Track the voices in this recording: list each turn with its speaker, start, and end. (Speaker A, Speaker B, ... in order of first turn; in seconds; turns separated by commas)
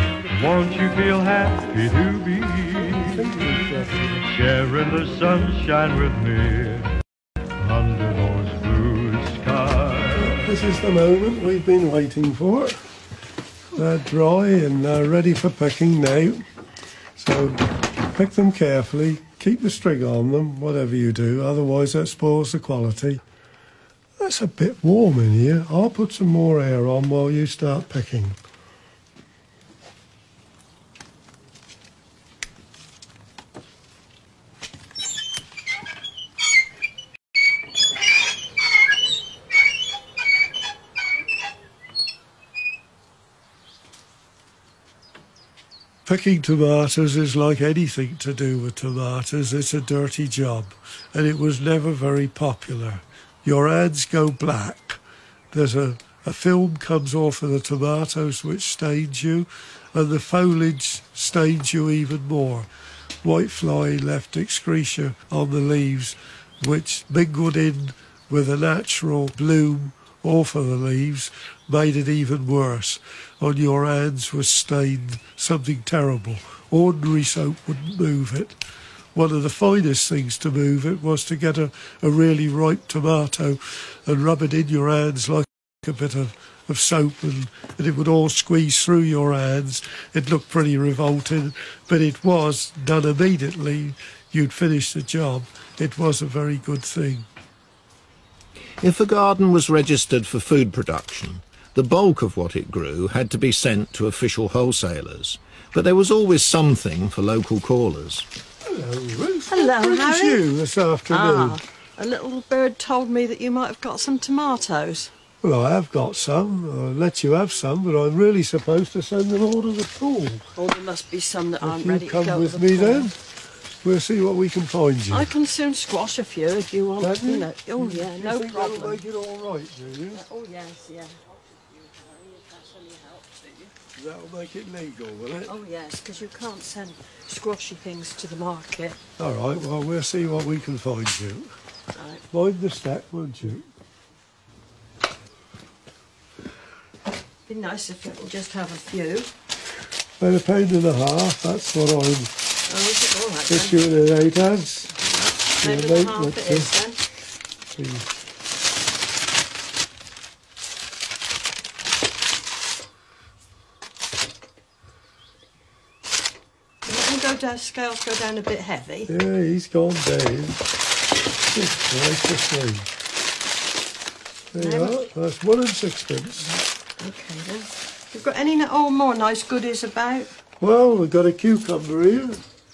Speaker A: 0.3-3.2, Speaker B: 2.9-4.3, Speaker A: 4.3-6.9, Speaker A: 7.6-10.4, Speaker B: 10.3-12.8, Speaker B: 13.8-16.4, Speaker B: 17.2-23.2, Speaker B: 24.2-28.4, Speaker B: 46.1-55.0, Speaker B: 55.5-62.7, Speaker B: 63.2-78.6, Speaker B: 79.2-97.3, Speaker C: 98.8-108.3, Speaker B: 108.6-111.6, Speaker D: 109.5-110.5, Speaker D: 111.1-115.1, Speaker B: 115.4-120.5, Speaker D: 120.6-123.1, Speaker B: 121.6-123.2, Speaker B: 123.8-125.3, Speaker D: 125.1-129.0, Speaker B: 127.0-130.2, Speaker D: 130.1-133.7, Speaker B: 134.0-135.5, Speaker D: 135.4-139.0, Speaker B: 139.2-141.5, Speaker D: 141.9-142.2, Speaker B: 142.3-143.7, Speaker D: 147.5-149.3, Speaker B: 150.2-152.3, Speaker D: 152.7-153.9, Speaker B: 153.5-155.1, Speaker D: 155.2-157.0, Speaker B: 155.6-156.7, Speaker B: 157.7-158.1, Speaker D: 166.8-169.1, Speaker B: 169.1-170.6, Speaker B: 171.5-172.9, Speaker D: 174.5-175.0, Speaker B: 174.5-176.5, Speaker D: 176.4-180.3, Speaker B: 180.6-182.4